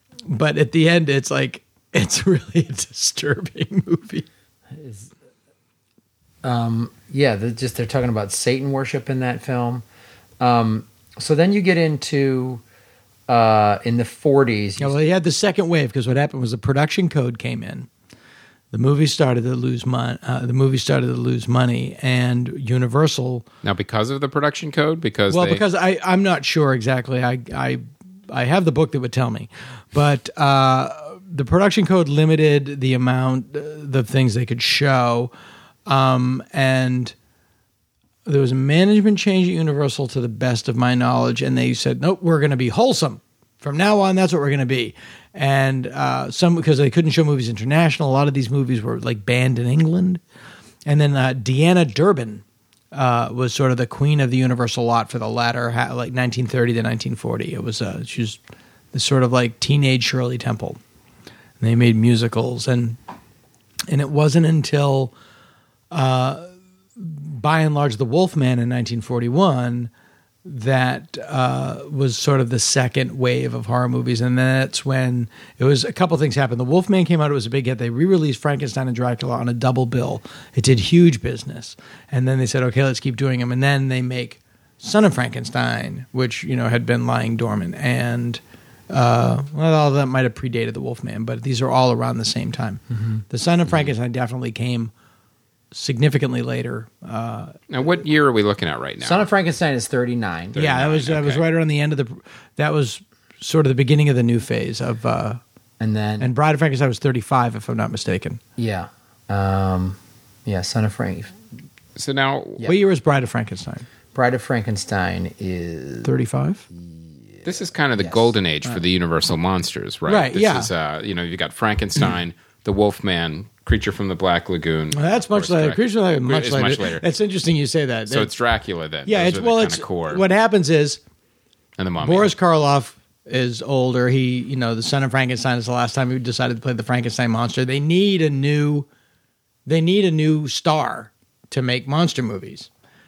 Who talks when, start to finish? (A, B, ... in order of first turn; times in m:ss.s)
0:00.3-0:04.2 A
0:04.7-0:05.1 B
0:06.4-0:09.8 B
0:10.4-0:12.6 B
0:13.3-0:15.0 B
0:14.8-0:17.9 A
0:18.7-0:23.5 A
0:23.6-0:25.6 C
0:25.3-0:35.3 A
0:35.9-0:37.1 A
0:38.2-0:50.2 A
0:50.8-0:58.4 A
0:58.9-1:00.8 A
1:01.6-1:03.0 A
1:03.9-1:05.1 A
1:05.9-1:09.9 A
1:10.4-1:34.9 A
1:35.7-1:37.6 A
1:37.7-1:39.3 C
1:39.0-1:40.6 B
1:40.5-1:41.4 C
1:40.6-1:45.4 A
1:45.8-1:46.3 B
1:46.2-1:48.4 A
1:48.6-1:51.3 B
1:52.0-1:52.6 C
1:52.6-1:53.8 A
1:54.1-1:56.1 B
1:56.0-1:56.6 A
1:57.4-2:07.0 C
1:58.0-1:58.8 B
2:00.1-2:00.7 A
2:04.9-2:08.3 A
2:08.1-2:10.2 C
2:09.0-2:11.0 A
2:11.8-2:12.3 C
2:12.0-2:18.9 A
2:19.6-2:22.7 A